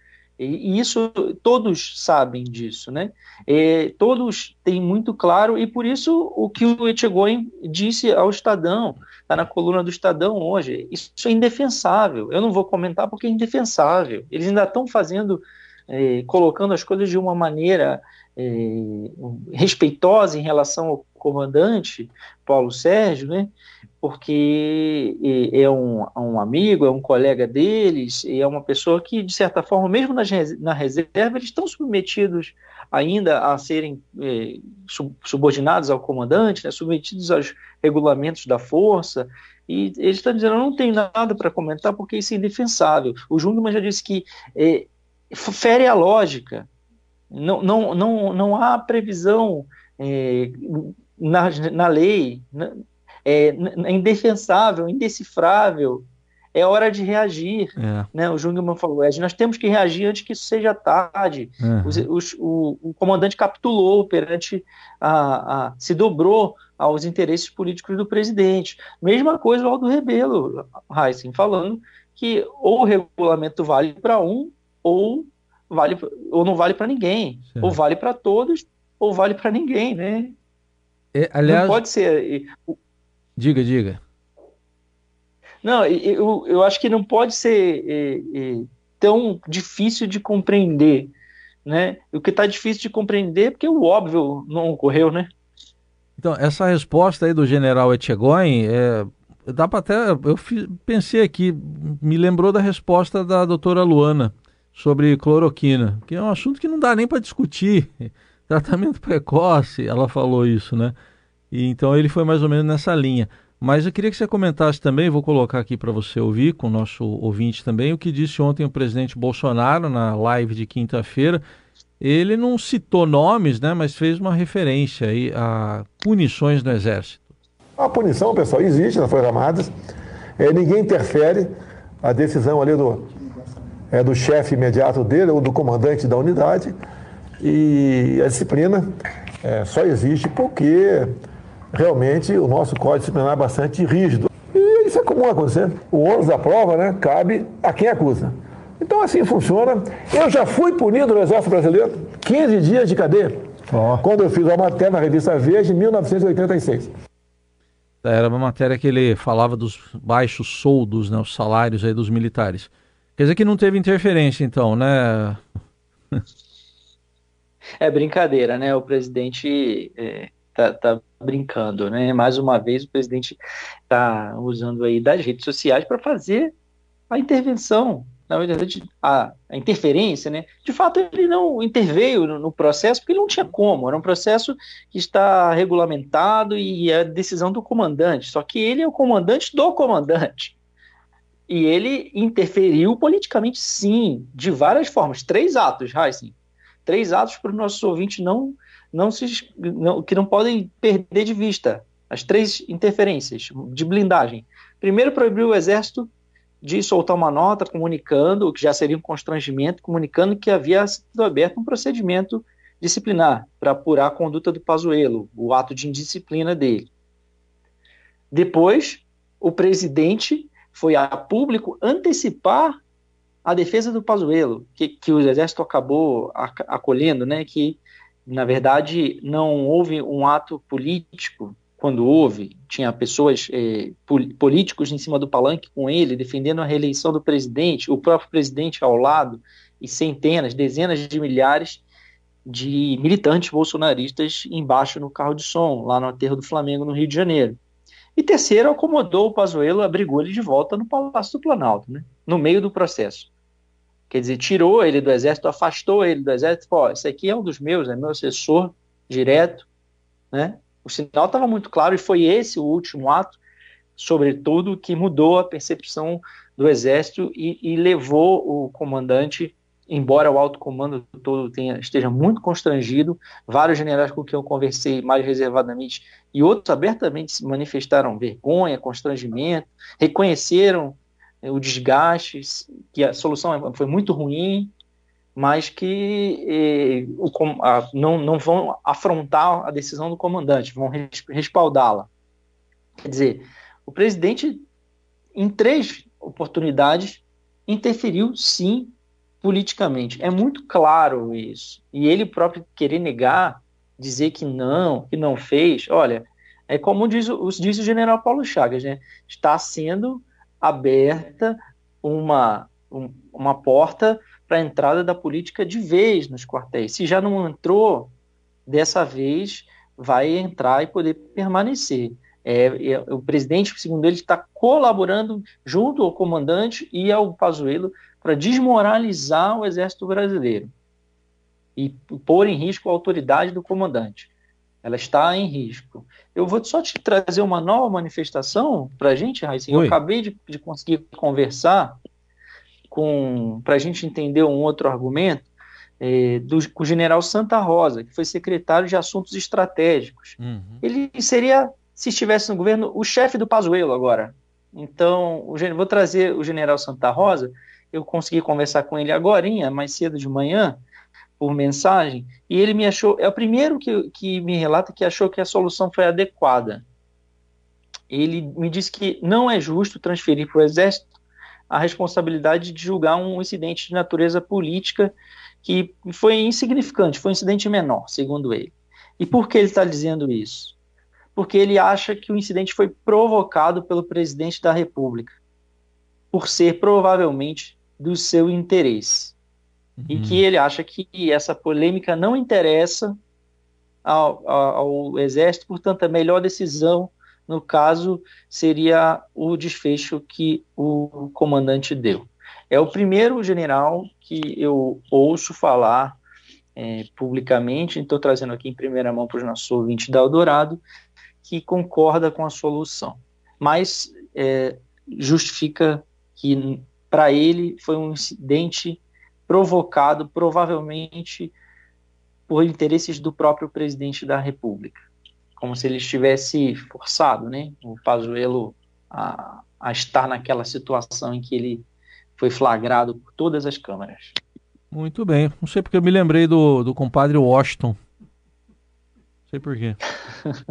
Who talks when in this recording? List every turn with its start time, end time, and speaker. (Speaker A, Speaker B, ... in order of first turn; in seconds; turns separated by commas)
Speaker A: 0.4-23.5, Speaker A: 24.0-46.7, Speaker A: 47.3-80.3, Speaker B: 57.8-58.1, Speaker B: 61.6-62.0, Speaker B: 81.1-81.8, Speaker A: 81.5-82.8, Speaker B: 83.4-84.0, Speaker A: 85.6-91.1, Speaker A: 91.7-95.3, Speaker B: 96.2-111.0, Speaker B: 111.5-121.4, Speaker B: 122.0-127.3, Speaker C: 127.8-129.7, Speaker C: 130.4-131.5, Speaker C: 132.0-133.1, Speaker C: 133.9-136.8, Speaker C: 137.4-138.9, Speaker C: 139.4-141.1, Speaker C: 141.7-153.4, Speaker C: 154.0-156.9, Speaker B: 158.0-165.4, Speaker A: 167.8-176.5, Speaker A: 177.1-190.6, Speaker A: 191.5-196.3, Speaker A: 196.9-206.1, Speaker A: 206.6-216.9, Speaker A: 218.3-222.8, Speaker A: 223.4-241.8, Speaker A: 242.5-247.6, Speaker A: 248.2-253.3, Speaker A: 254.1-259.7, Speaker A: 260.3-263.4, Speaker A: 264.0-284.7, Speaker A: 285.4-292.1, Speaker A: 293.0-294.6, Speaker A: 295.4-318.1, Speaker A: 318.7-330.7, Speaker A: 331.8-334.3, Speaker A: 334.8-342.0, Speaker B: 339.7-340.0, Speaker A: 342.9-345.5, Speaker A: 346.0-360.8, Speaker B: 350.4-350.8, Speaker A: 361.4-366.8, Speaker A: 368.1-371.1, Speaker A: 371.7-380.8, Speaker A: 381.4-385.4, Speaker A: 386.3-389.4, Speaker B: 390.0-390.4, Speaker A: 390.1-393.2, Speaker A: 394.1-406.2, Speaker A: 406.8-410.8, Speaker A: 411.4-421.5, Speaker A: 422.5-425.0, Speaker A: 425.6-431.9, Speaker A: 432.4-434.4, Speaker B: 434.9-438.0, Speaker B: 439.5-440.0